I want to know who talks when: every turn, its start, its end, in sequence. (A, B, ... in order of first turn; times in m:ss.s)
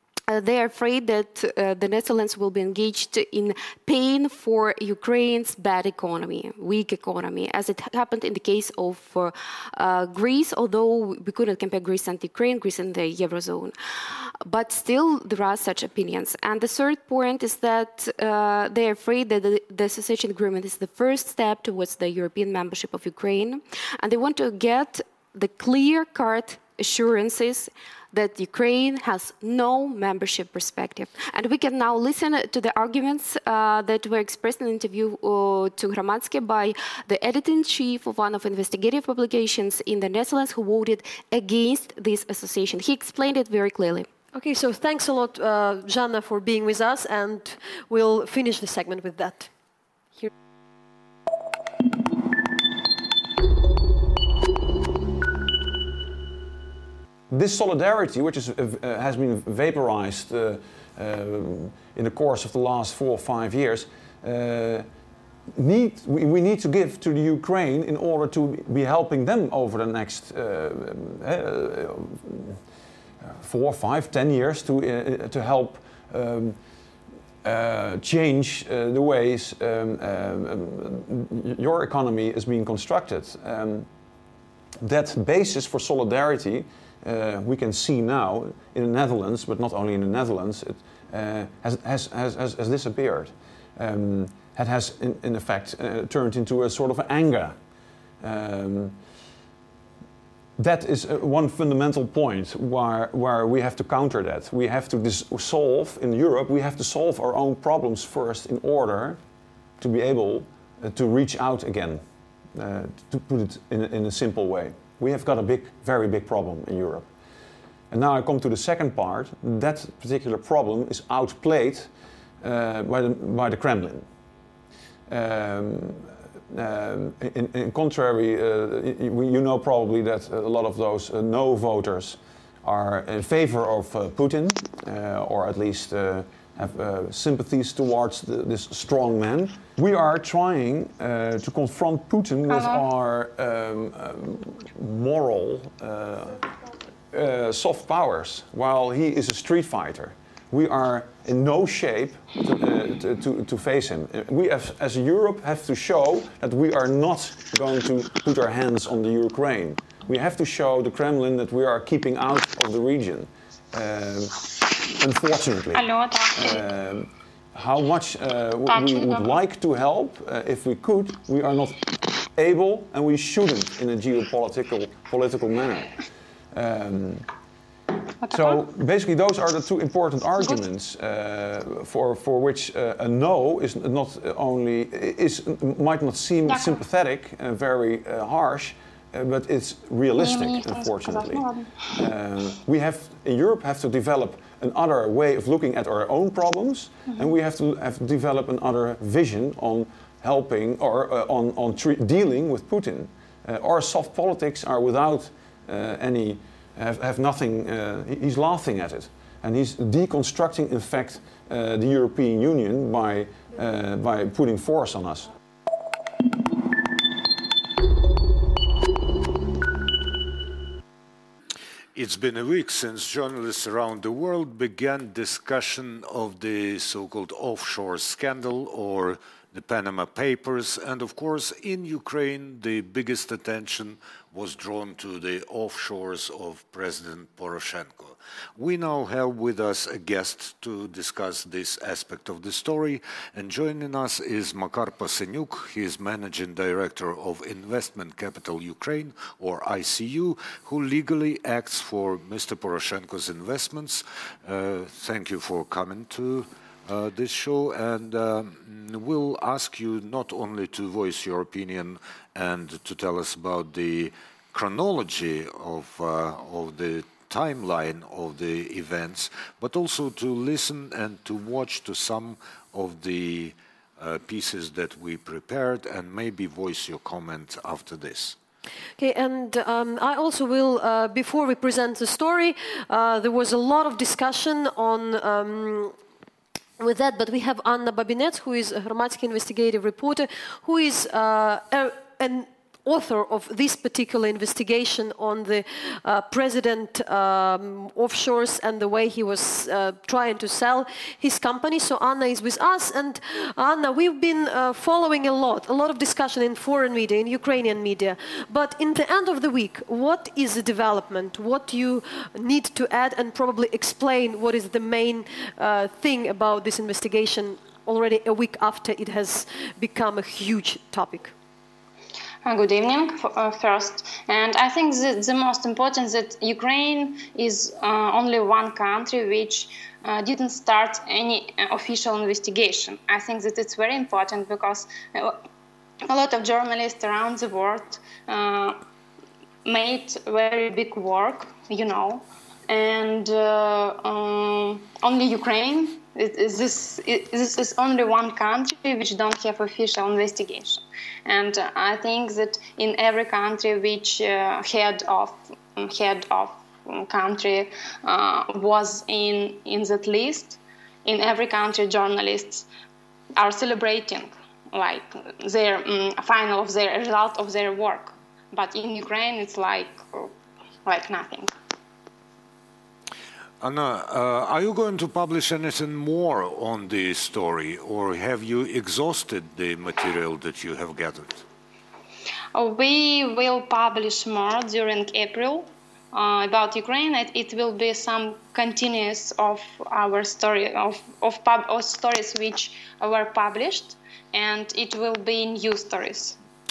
0:00.3-0:44.1 A
0:44.3-0:49.5 B
0:57.3-1:05.0 C
1:05.5-1:12.7 C
1:13.2-1:16.7 C
1:17.4-1:23.9 C
1:24.8-1:37.6 C
1:38.2-1:39.0 C
1:40.6-1:49.2 C
1:49.8-1:57.1 C
1:57.9-2:04.1 C
2:05.1-2:26.4 C
2:22.5-2:22.8 D
2:27.1-2:44.4 C
2:45.0-2:56.0 C
2:45.7-2:46.7 D
2:48.7-2:49.4 D
2:56.5-2:57.3 C
2:58.2-2:58.6 D
2:58.3-3:35.3 C
3:00.4-3:00.6 D
3:06.5-3:06.8 D
3:10.2-3:11.9 D
3:17.1-3:17.3 D
3:42.0-4:38.4 E
4:39.0-4:45.9 B
4:46.8-5:21.3 B
5:22.4-5:35.4 D
5:36.1-5:38.8 D
5:39.6-6:02.7 D
6:03.4-6:10.3 D
6:10.8-6:11.5 D
6:13.6-6:21.4 E
6:22.6-6:36.4 D